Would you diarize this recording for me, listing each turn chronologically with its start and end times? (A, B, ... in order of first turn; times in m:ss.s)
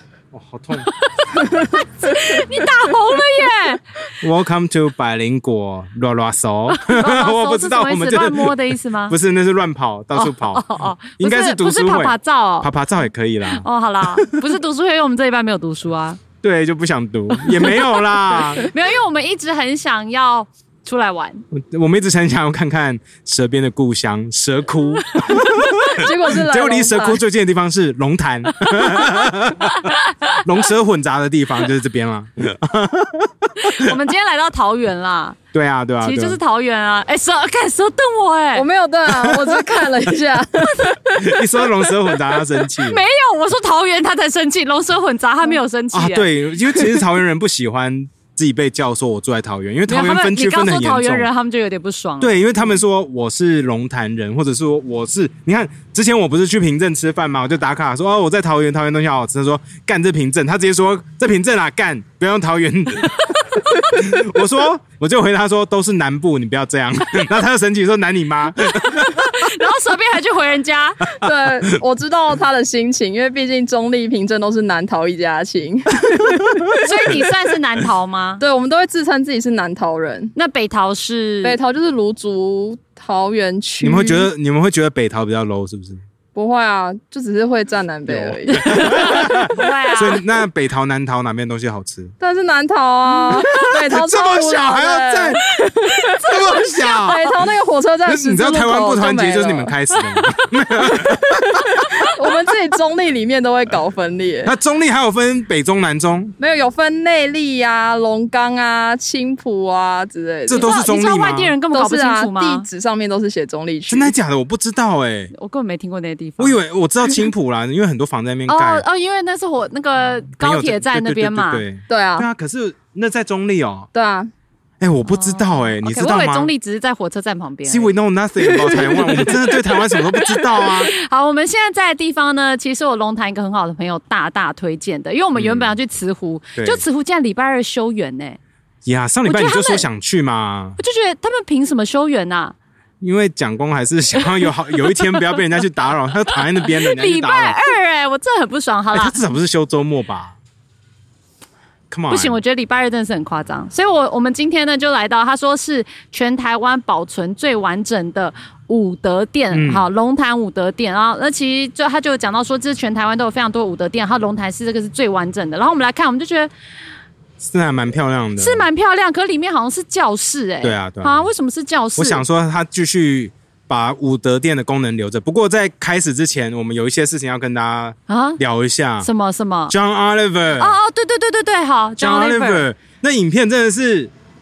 0:00.3-0:00.9 A
0:00.9-0:04.0 B
0:04.2-0:14.4 A
0:06.7-0:09.2 B
0:10.2-0:12.7 B
0:13.5-0:16.2 B
0:16.4-0:18.7 A
0:17.4-0:21.4 B
0:21.5-0:34.0 A
0:25.0-0:25.9 B
0:25.6-0:27.2 C
0:28.8-0:29.3 B
0:29.9-0:30.4 B
0:33.6-0:35.4 B
0:35.5-0:36.4 A
0:36.0-0:38.7 B
0:38.6-0:41.8 C
0:39.1-0:39.8 A
0:41.2-0:43.0 A
0:42.8-0:46.3 B
0:45.9-0:51.3 A
0:49.9-0:52.6 B
0:52.2-1:09.5 A
1:03.3-1:03.8 B
1:08.7-1:11.0 B
1:11.1-1:16.9 C
1:16.2-1:17.1 A
1:16.8-1:18.4 B
1:18.4-1:20.3 C
1:20.4-1:21.6 B
1:21.4-1:24.3 C
1:23.8-1:26.0 A
1:26.4-1:29.3 C
1:28.1-1:32.1 A
1:28.8-1:30.2 B
1:32.2-1:36.2 C
1:33.5-1:35.4 A
1:36.2-1:37.3 A
1:36.2-1:37.2 B
1:36.7-1:39.7 C
1:38.1-1:42.0 A
1:40.8-1:44.5 C
1:44.4-1:46.4 A
1:46.4-1:50.7 C
1:50.5-1:51.5 A
1:50.5-1:52.7 B
1:51.7-1:54.1 C
1:53.9-1:55.3 A
1:55.3-1:56.6 B
1:56.4-1:58.9 A
1:58.5-2:01.6 B
2:00.4-2:03.9 A
2:01.9-2:02.3 C
2:03.9-2:04.3 C
2:04.8-2:06.5 A
2:05.1-2:07.9 B
2:07.7-2:10.9 A
2:08.4-2:09.3 C
2:09.0-2:09.3 B
2:10.2-2:18.4 B
2:15.4-2:15.8 A
2:16.6-2:16.8 A
2:18.8-2:20.8 A
2:19.3-2:19.9 B
2:20.8-2:22.6 B
2:23.0-2:27.6 A
2:26.4-2:29.2 B
2:28.9-2:30.4 A
2:31.9-2:32.4 A
2:32.1-2:46.5 B
2:39.5-2:39.9 A
2:47.4-2:48.7 A
2:48.4-2:52.2 B
2:50.6-2:51.3 A
2:52.0-2:59.1 A
2:58.1-2:58.4 B
2:59.0-2:59.7 B
2:59.7-3:00.8 A
3:00.6-3:02.6 B
3:02.0-3:04.1 A